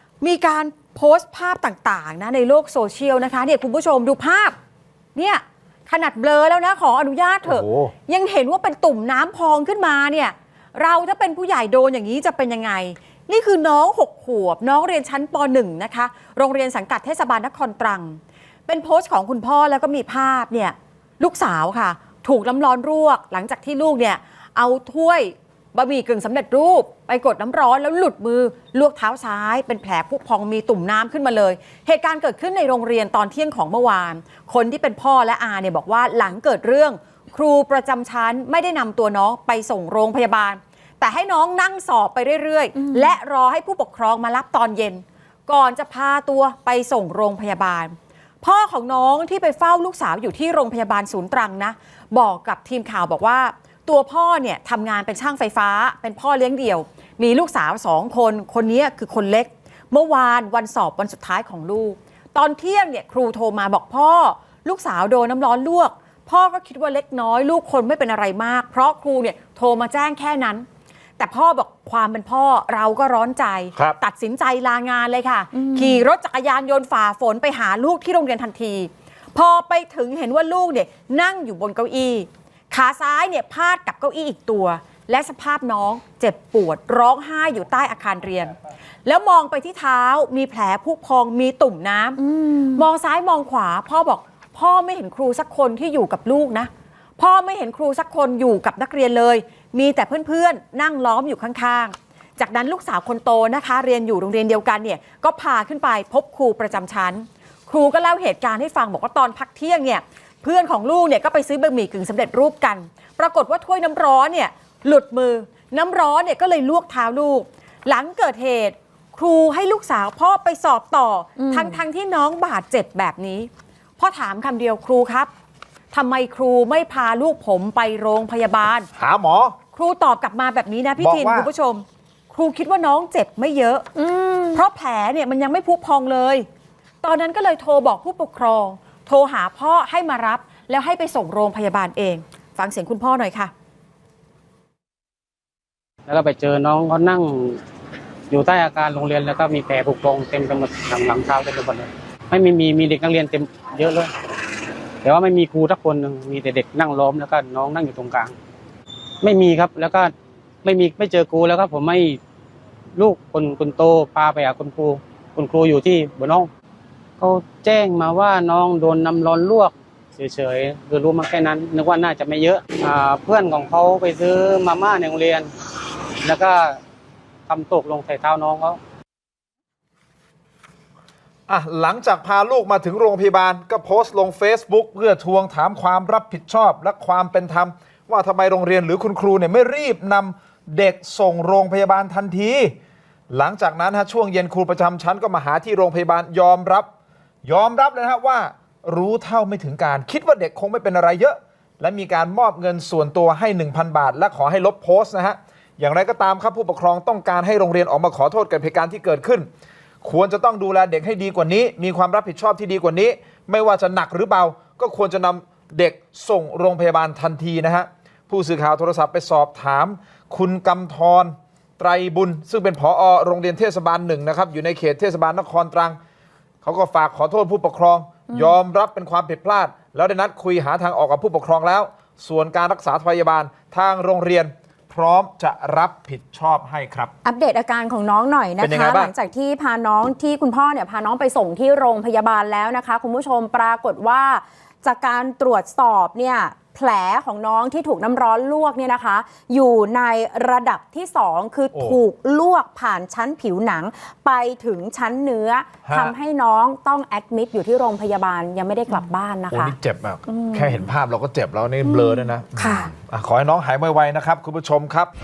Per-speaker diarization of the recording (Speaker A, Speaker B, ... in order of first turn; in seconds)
Speaker A: 0.2-4.5, 5.1-70.7, 71.2-125.3, 125.9-128.9, 129.7-133.9, 134.5-136.5, 137.0-143.5
Speaker B: 7.5-7.9, 128.9-129.6, 131.0-131.5, 181.5-192.8, 193.3-196.9, 197.4-209.5, 210.0-226.0, 226.6-237.1, 238.6-239.1, 251.7-252.0, 255.8-256.1, 259.5-265.1
Speaker C: 75.6-76.0, 92.3-92.8, 121.4-121.8, 133.9-134.6, 228.3-228.6, 237.2-259.8, 260.3-260.9, 261.8-262.8
Speaker D: 146.1-147.6, 148.3-154.1, 155.0-158.3, 159.2-160.1, 160.6-162.2, 162.9-166.5, 167.2-175.5, 176.2-176.8, 177.5-178.8